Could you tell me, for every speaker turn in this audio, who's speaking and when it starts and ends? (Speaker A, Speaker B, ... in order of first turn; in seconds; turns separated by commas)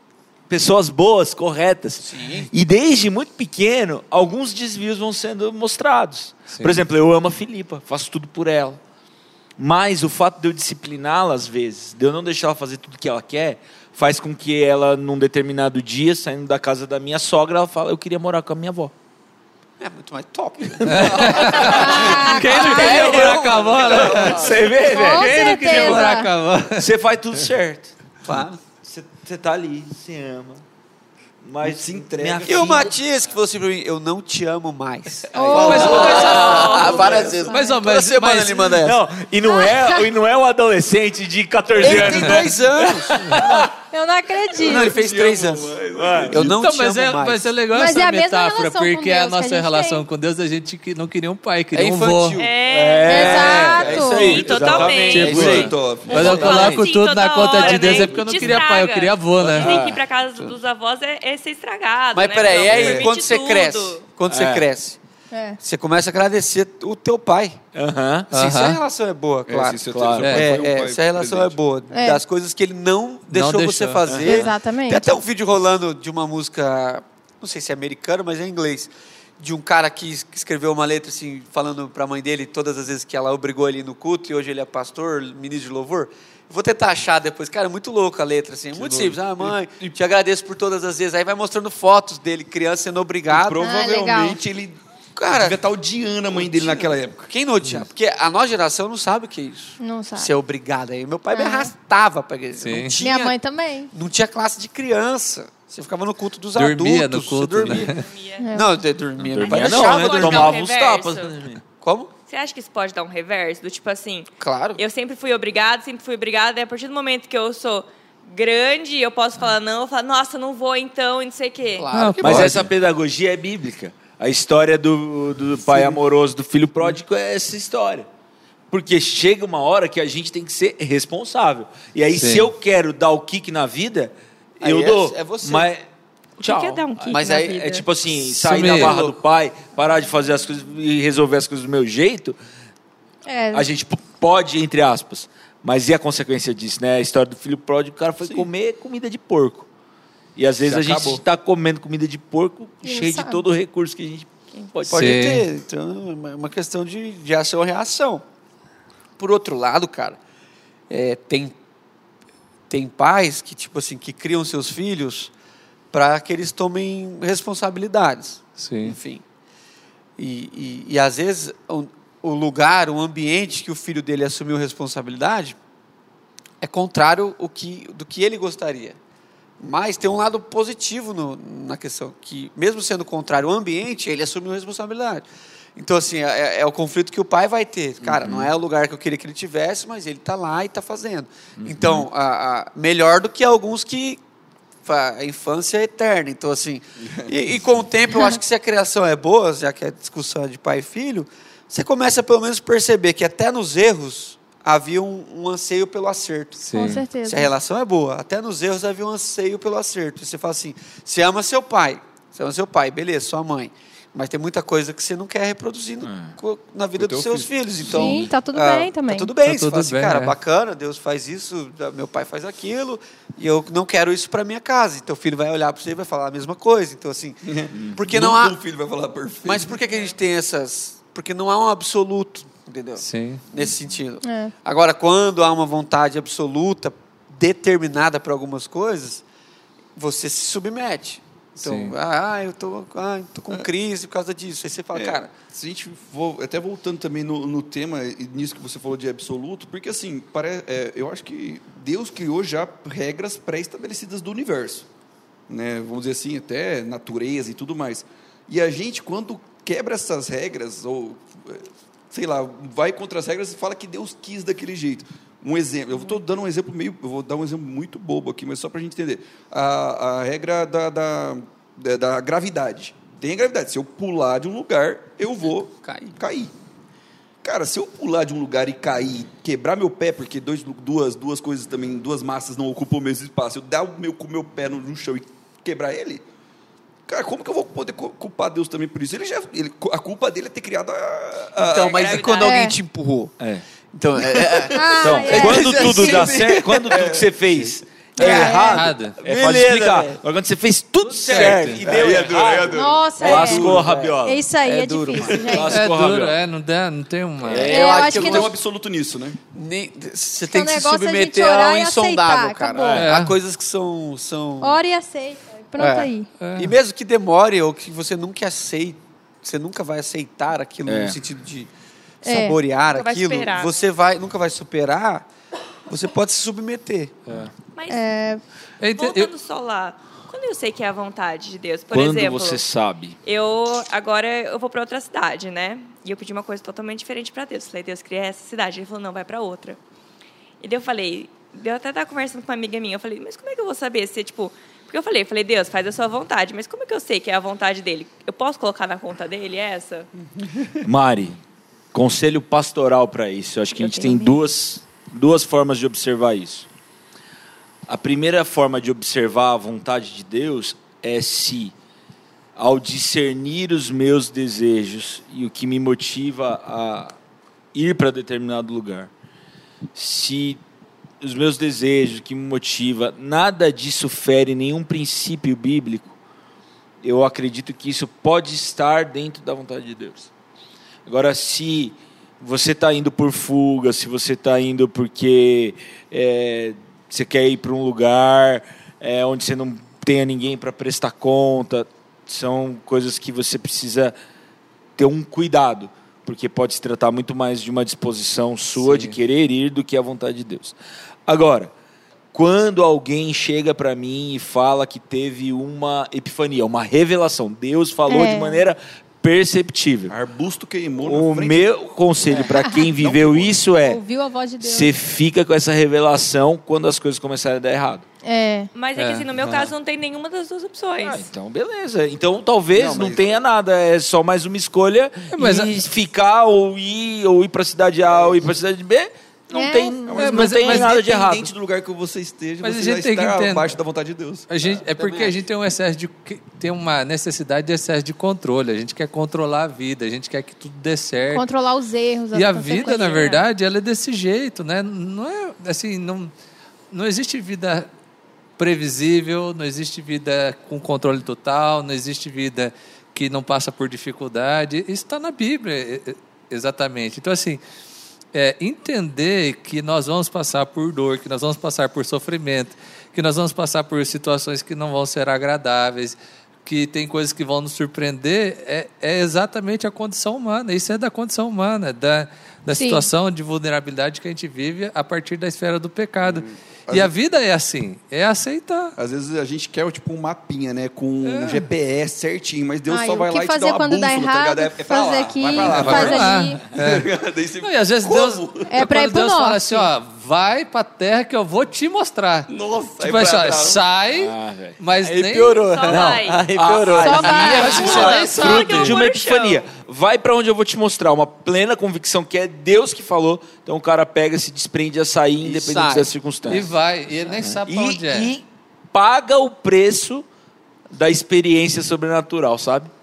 Speaker A: 0.5-8.8, Speaker B: 2.0-2.5, Speaker C: 6.5-6.8, Speaker A: 9.6-18.9, Speaker B: 19.8-24.8, Speaker A: 20.6-26.1, Speaker C: 20.9-26.9, Speaker D: 21.6-23.0, Speaker E: 23.8-24.6, Speaker D: 24.8-26.3, Speaker A: 26.8-27.9, Speaker B: 28.2-28.6, Speaker A: 28.8-30.6, Speaker A: 31.4-32.9, Speaker E: 31.6-32.8, Speaker B: 32.4-39.0, Speaker D: 35.3-36.3, Speaker A: 35.5-37.3, Speaker C: 35.6-38.7, Speaker F: 36.1-37.2, Speaker D: 37.2-37.8, Speaker A: 38.6-43.7, Speaker D: 39.4-40.1, Speaker B: 41.8-43.5, Speaker D: 43.9-45.0, Speaker B: 44.6-47.5, Speaker E: 44.6-46.5, Speaker A: 45.9-46.5, Speaker C: 46.5-52.4, Speaker D: 47.7-50.0, Speaker B: 51.7-52.5, Speaker F: 52.4-55.5, Speaker A: 52.7-56.9, Speaker D: 53.0-54.4, Speaker B: 53.9-54.4, Speaker E: 53.9-56.4, Speaker C: 55.1-59.7, Speaker B: 55.2-55.7, Speaker F: 56.1-64.0, Speaker A: 57.4-58.6, Speaker A: 59.4-60.0, Speaker B: 62.1-65.0, Speaker E: 62.7-63.1, Speaker A: 64.3-64.7, Speaker D: 65.3-65.6, Speaker B: 65.6-67.6, Speaker A: 67.7-68.3, Speaker C: 68.3-68.8, Speaker B: 68.3-93.6, Speaker E: 69.5-71.6, Speaker A: 69.9-70.4, Speaker C: 70.2-70.5, Speaker D: 71.9-72.2, Speaker C: 73.3-74.0, Speaker A: 74.0-74.5, Speaker D: 74.2-75.1, Speaker E: 88.7-90.0, Speaker E: 93.3-94.8, Speaker D: 93.6-94.4, Speaker B: 95.2-95.6, Speaker E: 95.3-97.3, Speaker B: 96.3-103.3, Speaker D: 99.8-100.3, Speaker D: 101.3-101.7, Speaker C: 102.6-103.0, Speaker D: 103.0-103.9, Speaker B: 103.9-107.9, Speaker C: 106.5-108.0, Speaker F: 107.7-108.5, Speaker D: 108.4-108.7, Speaker B: 108.5-110.6, Speaker A: 109.3-111.6, Speaker F: 109.5-111.3, Speaker B: 111.8-112.1, Speaker F: 112.3-121.9, Speaker B: 114.4-114.8, Speaker B: 121.7-122.7, Speaker C: 121.9-122.5, Speaker A: 122.2-128.1, Speaker B: 125.6-126.0, Speaker A: 128.7-135.8, Speaker C: 132.1-132.5, Speaker B: 134.6-135.7, Speaker F: 136.4-137.8, Speaker A: 136.4-142.4, Speaker B: 136.5-137.7, Speaker B: 138.2-139.2, Speaker C: 138.5-138.9, Speaker D: 143.2-143.7, Speaker A: 143.5-149.7, Speaker A: 150.3-155.2, Speaker E: 150.6-151.2, Speaker D: 152.8-153.4, Speaker B: 154.9-158.2, Speaker C: 154.9-155.4, Speaker B: 159.2-160.2, Speaker B: 160.9-161.6, Speaker B: 162.7-165.3, Speaker B: 165.9-169.2, Speaker C: 168.6-168.9, Speaker B: 170.2-175.6, Speaker B: 176.6-179.0, Speaker B: 179.6-185.2, Speaker B: 185.8-194.2, Speaker A: 188.0-188.5, Speaker A: 191.6-192.1, Speaker B: 194.8-228.6, Speaker E: 197.0-197.3, Speaker C: 206.7-207.0, Speaker D: 206.7-207.5, Speaker A: 216.0-216.4, Speaker E: 217.0-217.5, Speaker D: 217.8-219.3, Speaker C: 219.4-220.3, Speaker E: 227.4-229.7, Speaker B: 229.4-239.2, Speaker C: 233.0-233.4, Speaker D: 234.2-234.5, Speaker B: 239.9-245.3, Speaker C: 241.6-241.9, Speaker E: 244.9-254.9, Speaker E: 255.5-276.5, Speaker B: 275.8-276.1, Speaker E: 277.4-286.2, Speaker E: 287.1-292.3, Speaker B: 291.6-293.3, Speaker F: 291.8-292.4, Speaker D: 292.4-292.8, Speaker A: 293.4-293.6, Speaker B: 293.9-296.3, Speaker A: 294.2-304.4, Speaker D: 294.7-296.1, Speaker E: 295.4-297.3, Speaker D: 298.2-298.8, Speaker B: 298.2-298.6, Speaker C: 298.7-299.1, Speaker B: 299.2-300.2, Speaker B: 301.1-302.2, Speaker E: 301.2-304.1, Speaker D: 302.7-305.8, Speaker B: 303.2-305.6, Speaker E: 305.3-305.6, Speaker A: 305.3-306.4, Speaker C: 305.6-307.7, Speaker E: 307.5-309.4, Speaker B: 307.5-308.5, Speaker D: 307.6-308.6, Speaker B: 309.5-314.8, Speaker D: 310.4-313.0, Speaker A: 312.8-313.1, Speaker C: 313.0-313.3, Speaker D: 314.6-316.3, Speaker B: 315.8-321.7, Speaker C: 316.4-316.7, Speaker A: 320.9-321.1, Speaker B: 322.2-325.3, Speaker D: 322.2-322.6, Speaker F: 322.9-323.7, Speaker B: 325.9-327.2, Speaker F: 327.7-328.1, Speaker D: 327.9-328.4, Speaker C: 328.8-329.3, Speaker F: 328.9-332.6, Speaker A: 331.9-333.2, Speaker F: 333.2-339.8, Speaker F: 340.6-350.1, Speaker A: 350.8-351.4, Speaker A: 351.9-356.7, Speaker F: 353.8-354.3, Speaker A: 357.9-361.7, Speaker A: 362.6-367.1, Speaker A: 367.7-369.1, Speaker A: 369.9-370.6, Speaker A: 371.2-376.1, Speaker A: 377.0-380.3, Speaker A: 381.1-394.1, Speaker A: 395.0-400.7, Speaker C: 398.8-399.1, Speaker A: 401.3-401.7, Speaker A: 402.3-410.1, Speaker D: 408.1-408.6, Speaker E: 410.1-411.8, Speaker A: 411.0-414.0, Speaker E: 412.4-413.6, Speaker D: 412.5-412.8, Speaker D: 413.7-414.9, Speaker A: 414.6-418.0, Speaker D: 418.2-418.7, Speaker F: 418.7-421.2, Speaker C: 419.0-419.2, Speaker A: 419.4-419.7, Speaker A: 421.0-431.5, Speaker E: 422.7-423.4, Speaker C: 425.3-425.8, Speaker D: 429.5-430.1, Speaker E: 430.0-434.5, Speaker C: 430.2-430.9, Speaker C: 432.6-433.8, Speaker C: 434.5-441.4, Speaker B: 434.8-435.4, Speaker D: 441.3-443.4, Speaker C: 442.3-446.3, Speaker C: 446.9-447.9, Speaker C: 448.6-457.6, Speaker C: 458.3-478.9, Speaker D: 472.7-473.1, Speaker E: 476.2-477.1, Speaker E: 478.9-488.7, Speaker C: 481.3-481.6, Speaker D: 482.9-486.7, Speaker A: 485.6-486.1, Speaker C: 485.8-487.1, Speaker C: 487.6-495.6, Speaker D: 488.7-489.9, Speaker E: 492.5-493.8, Speaker A: 494.1-494.8, Speaker B: 495.0-498.2, Speaker F: 495.6-496.4, Speaker A: 495.9-506.7, Speaker D: 497.0-498.2, Speaker C: 497.4-499.0, Speaker F: 497.4-499.6, Speaker B: 505.4-506.6, Speaker C: 506.5-508.3, Speaker A: 507.4-510.2, Speaker A: 510.9-512.9